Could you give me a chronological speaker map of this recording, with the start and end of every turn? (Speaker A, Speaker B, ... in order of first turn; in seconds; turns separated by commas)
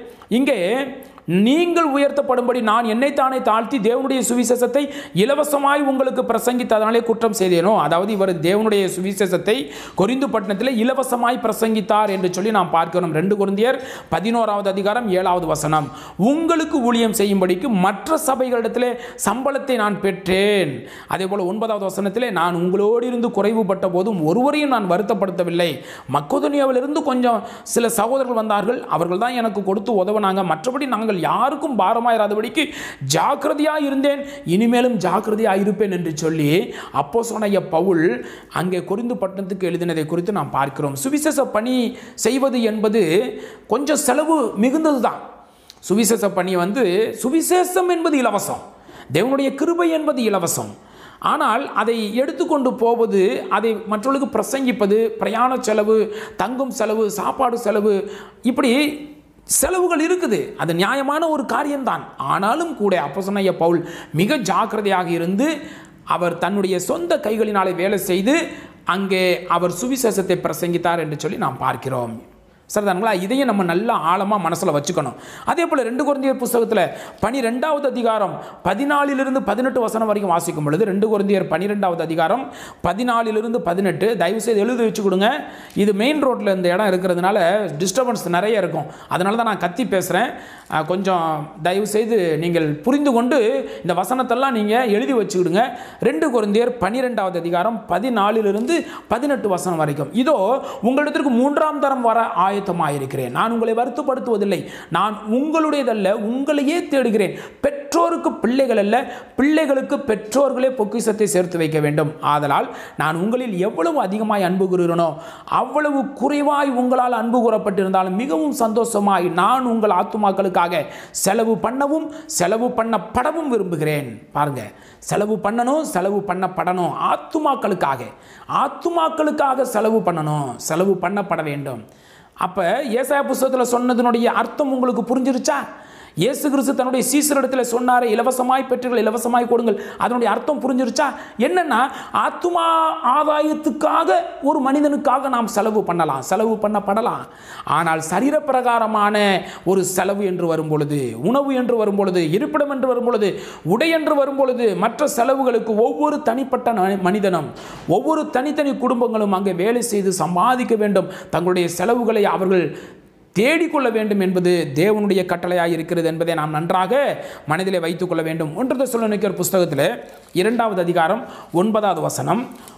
Speaker A: 0.3-43.1, Speaker A: 43.7-45.2, Speaker A: 45.9-48.6, Speaker A: 49.1-50.7, Speaker A: 51.3-59.0, Speaker A: 59.5-65.5, Speaker A: 66.1-68.4, Speaker A: 68.9-72.2, Speaker A: 72.7-131.8, Speaker A: 132.4-135.6, Speaker A: 136.2-162.7, Speaker A: 163.4-172.4